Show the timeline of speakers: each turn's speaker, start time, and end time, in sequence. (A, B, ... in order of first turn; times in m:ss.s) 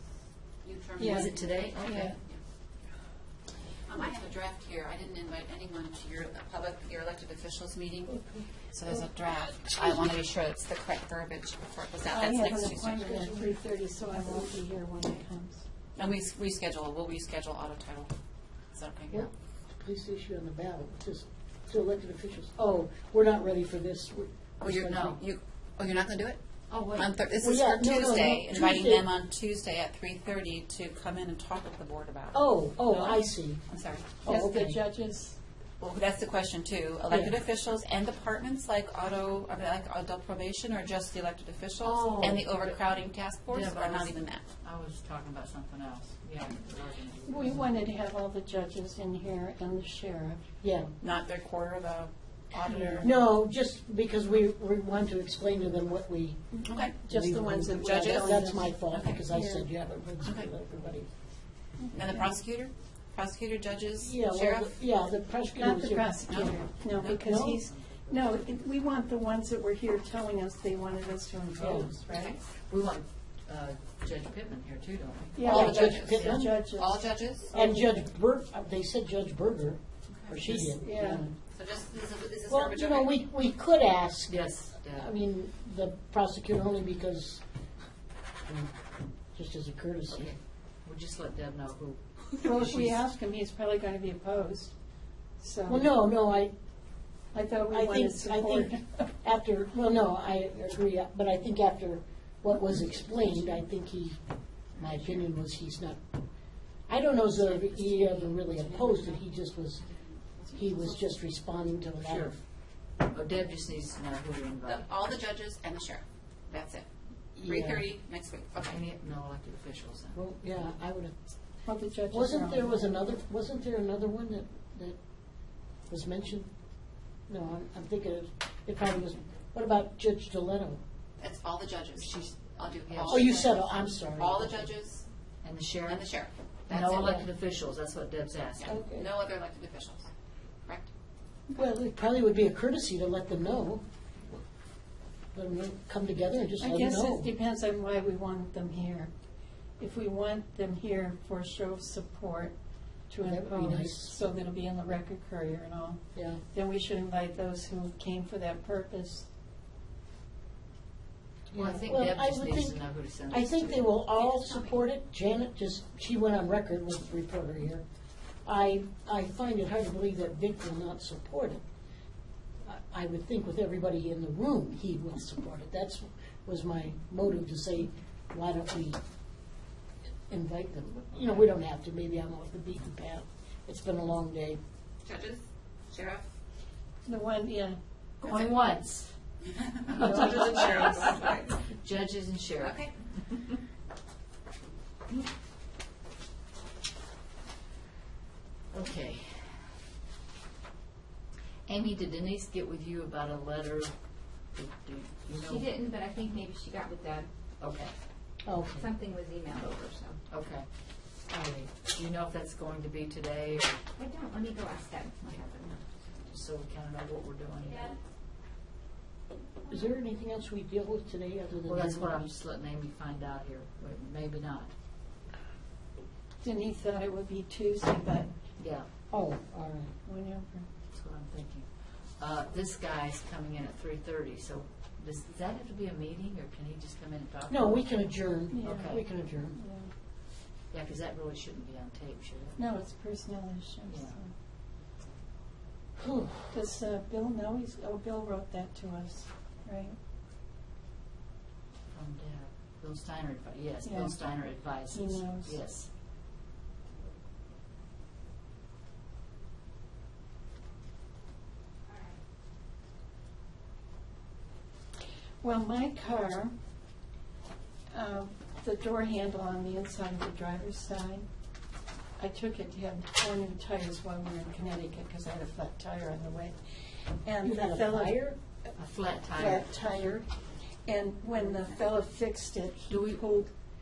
0:00.6-0:02.4 A
0:01.0-0:01.3 B
0:01.0-0:02.1 C
0:01.8-0:02.1 B
0:03.9-0:08.2 A
0:08.1-0:08.5 D
0:08.7-0:13.4 A
0:12.1-0:15.6 B
0:16.0-0:18.1 A
0:18.7-0:19.2 A
0:19.1-0:25.2 D
0:24.6-0:26.4 A
0:24.9-0:25.2 C
0:26.7-0:27.1 C
0:26.9-0:34.2 A
0:27.4-0:29.1 D
0:32.3-0:33.6 D
0:34.2-0:34.8 D
0:34.2-0:35.4 B
0:35.8-0:44.4 A
0:37.1-0:37.4 D
0:41.8-0:42.5 D
0:42.1-0:42.8 C
0:43.5-0:47.7 C
0:47.2-0:50.4 B
0:50.6-0:50.9 D
0:51.0-0:53.1 A
0:52.6-0:53.1 B
0:53.0-0:56.5 D
0:56.5-0:59.7 B
0:56.7-0:57.0 A
0:57.1-1:01.1 D
0:57.7-0:59.2 A
1:00.2-1:00.5 A
1:01.8-1:02.3 B
1:01.9-1:04.7 A
1:04.0-1:06.5 D
1:05.6-1:12.4 B
1:06.3-1:07.3 A
1:07.2-1:07.6 D
1:07.4-1:08.4 C
1:11.6-1:11.9 D
1:12.1-1:12.4 A
1:12.6-1:16.6 C
1:15.3-1:18.0 B
1:15.4-1:16.6 D
1:15.5-1:17.5 A
1:17.5-1:21.3 D
1:20.6-1:21.2 B
1:21.5-1:23.2 A
1:22.5-1:27.4 D
1:24.3-1:25.1 C
1:28.5-1:28.7 D
1:29.3-1:30.3 D
1:30.1-1:33.0 C
1:32.3-1:34.7 B
1:35.4-1:35.9 B
1:35.7-1:36.5 D
1:37.3-1:39.1 B
1:37.7-1:44.2 D
1:44.8-1:46.0 D
1:46.9-1:49.8 D
1:47.4-1:48.5 C
1:50.5-1:52.4 D
1:52.0-1:52.4 C
1:53.0-1:54.8 C
1:54.7-1:58.8 A
1:57.4-1:57.9 D
1:58.6-2:00.2 C
2:00.1-2:01.1 D
2:01.6-2:03.0 B
2:02.1-2:05.0 D
2:05.9-2:06.5 D
2:07.3-2:10.8 D
2:11.2-2:13.6 A
2:12.0-2:13.5 C
2:13.1-2:14.7 D
2:14.1-2:15.0 A
2:15.4-2:16.1 C
2:15.8-2:17.2 A
2:16.7-2:18.8 C
2:18.6-2:20.1 A
2:18.6-2:19.1 D
2:21.5-2:23.8 D
2:25.3-2:27.3 D
2:26.6-2:29.1 B
2:29.8-2:32.5 B
2:33.1-2:39.3 B
2:33.2-2:34.1 D
2:36.1-2:36.4 D
2:41.5-2:44.0 C
2:41.5-2:47.8 D
2:48.4-2:51.6 D
2:52.6-2:59.0 D
3:00.3-3:04.6 D
3:05.0-3:06.2 A
3:07.0-3:08.5 B
3:08.3-3:09.1 C
3:09.5-3:11.6 A
3:09.9-3:13.5 C
3:10.0-3:11.1 B
3:12.6-3:12.9 A
3:18.7-3:19.7 C
3:21.7-3:23.9 C
3:24.5-3:25.7 C
3:25.4-3:27.3 E
3:27.6-3:27.9 C
3:28.4-3:28.9 D
3:28.7-3:30.2 E
3:30.3-3:30.6 C
3:31.3-3:33.8 C
3:34.0-3:35.8 E
3:36.2-3:37.9 C
3:39.7-3:42.3 D
3:41.6-3:44.7 C
3:46.4-3:48.3 B
3:48.6-3:48.9 C
3:49.1-3:49.9 D
3:50.0-3:50.7 B
3:50.9-3:57.9 C
3:57.5-3:59.6 D
3:58.5-3:59.9 B
3:58.6-3:59.0 C
4:00.7-4:02.6 C
4:02.6-4:04.3 B
4:03.9-4:04.2 C
4:06.0-4:06.5 D
4:06.5-4:10.0 B
4:11.9-4:15.9 C
4:13.8-4:15.6 B
4:25.4-4:26.5 B
4:27.9-4:31.2 B
4:32.2-4:38.2 B
4:37.4-4:38.4 D
4:38.8-4:39.7 C
4:39.3-4:40.3 B
4:40.8-4:43.5 B
4:42.9-4:43.3 C